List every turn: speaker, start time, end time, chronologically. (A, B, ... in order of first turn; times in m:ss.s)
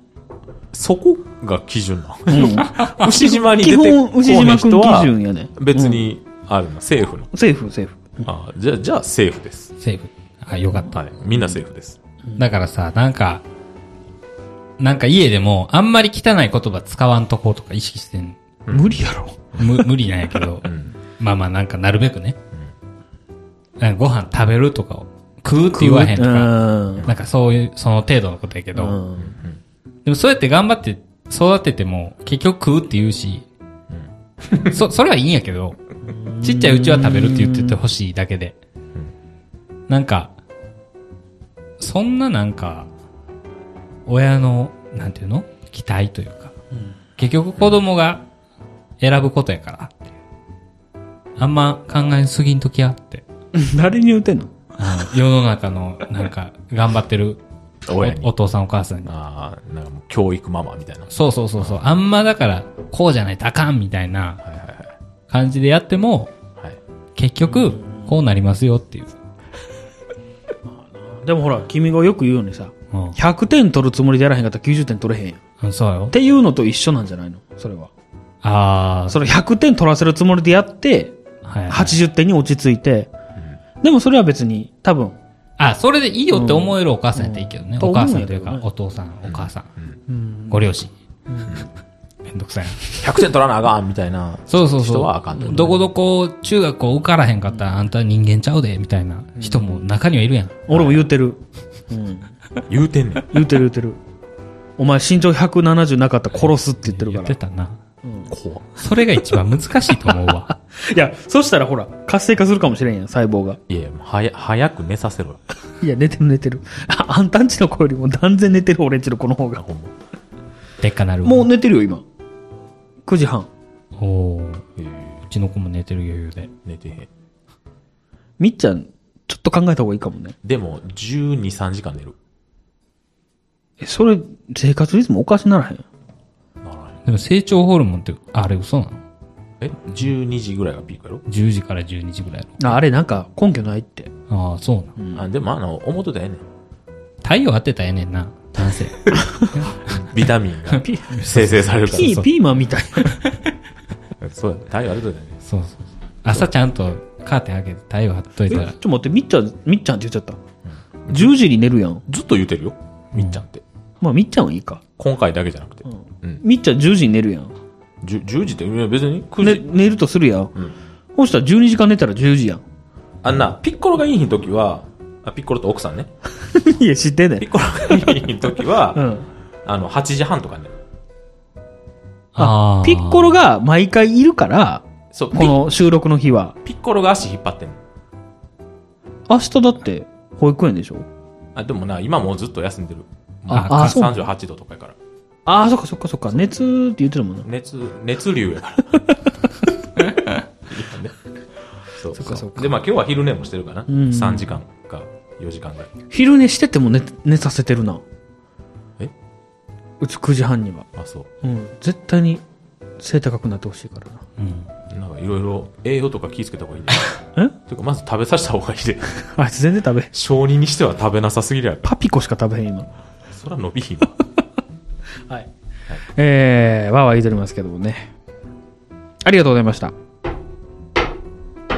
0:00.7-0:07.3 A
0:02.3-0:06.0 B
0:02.4-0:03.1 C
0:07.3-0:08.3 B
0:08.2-0:09.7 A
0:09.8-0:11.0 C
0:10.8-0:12.0 A
0:12.4-0:13.4 C
0:14.8-0:18.4 C
0:18.6-0:19.0 A
0:18.7-0:19.8 B
0:19.6-0:22.4 C
0:20.6-0:20.9 A
0:23.8-0:29.0 C
0:25.7-0:27.1 B
0:28.7-0:29.3 B
0:29.2-0:29.6 A
0:30.0-0:33.4 C
0:33.9-0:34.8 A
0:34.7-0:35.8 C
0:36.0-0:37.8 B
0:36.4-0:38.6 C
0:39.9-0:40.3 C
0:41.8-0:42.9 C
0:44.1-0:46.5 C
0:47.2-0:48.2 C
0:49.0-0:50.0 C
0:51.4-0:53.2 C
0:53.5-0:54.6 B
0:54.8-0:59.1 C
0:57.9-0:58.3 A
0:59.0-1:01.8 A
1:01.1-1:04.4 C
1:04.4-1:04.9 A
1:05.3-1:06.3 C
1:07.2-1:09.1 C
1:07.5-1:07.8 B
1:10.7-1:15.4 B
1:12.9-1:13.2 C
1:15.6-1:16.1 C
1:16.1-1:17.9 B
1:18.4-1:19.2 C
1:19.1-1:21.2 B
1:21.4-1:22.0 C
1:21.7-1:23.1 B
1:23.8-1:25.2 B
1:25.6-1:29.7 C
1:26.3-1:28.6 B
1:29.3-1:30.0 A
1:30.1-1:30.7 B
1:30.5-1:30.9 C
1:31.3-1:31.6 B
1:32.3-1:32.9 C
1:33.0-1:35.8 A
1:34.5-1:40.8 C
1:39.4-1:39.6 B
1:40.7-1:42.3 B
1:42.7-1:43.4 A
1:43.3-1:44.0 B
1:44.8-1:47.4 B
1:46.4-1:47.8 C
1:48.0-1:48.3 B
1:48.3-1:48.8 A
1:48.8-1:50.5 C
1:50.5-1:53.6 B
1:53.7-1:55.4 A
1:55.8-1:59.6 B
1:59.6-1:59.9 A
2:00.8-2:01.5 C
2:01.2-2:02.0 B
2:03.0-2:03.5 B
2:04.0-2:04.6 C
2:04.8-2:05.2 A
2:05.3-2:06.5 C
2:06.6-2:07.1 A
2:08.4-2:10.4 B
2:10.4-2:12.2 A
2:13.8-2:15.8 B
2:16.6-2:17.0 A
2:17.0-2:19.0 C
2:19.6-2:21.2 A
2:21.3-2:22.8 C
2:22.6-2:24.1 B
2:24.3-2:25.0 C
2:25.1-2:26.4 A
2:27.2-2:30.0 C
2:29.2-2:29.4 B
2:29.7-2:32.2 A
2:30.8-2:33.2 B
2:31.1-2:32.3 C
2:33.0-2:33.4 C
2:34.2-2:35.4 A
2:35.5-2:38.7 C
2:38.5-2:40.4 B
2:40.7-2:41.4 A
2:41.1-2:42.0 B
2:42.1-2:43.6 A
2:44.0-2:44.8 B
2:45.0-2:46.4 A
2:45.9-2:47.6 B
2:48.0-2:49.9 A
2:49.4-2:50.5 B
2:51.1-2:52.6 B
2:53.2-2:56.1 A
2:56.4-2:58.2 B
2:57.4-2:59.0 A
2:58.9-2:59.3 B
2:59.6-3:00.7 A
3:02.4-3:03.4 C
3:02.4-3:06.6 B
3:05.1-3:05.6 A
3:06.6-3:07.8 A
3:09.3-3:11.1 B
3:11.6-3:15.0 A
3:13.5-3:14.2 B
3:13.5-3:14.0 C
3:15.5-3:17.5 B
3:17.4-3:19.0 A
3:20.7-3:21.1 A
3:21.9-3:25.9 A
3:22.1-3:22.8 B
3:23.9-3:24.6 B
3:26.1-3:28.0 B
3:30.0-3:30.9 B
3:31.0-3:31.3 A
3:31.4-3:32.4 B
3:33.0-3:34.2 B
3:34.4-3:34.7 C
3:34.9-3:39.2 A
3:39.3-3:40.1 B
3:40.1-3:41.9 A
3:41.8-3:42.9 B
3:43.3-3:44.2 A
3:46.1-3:48.1 B
3:49.2-3:50.0 B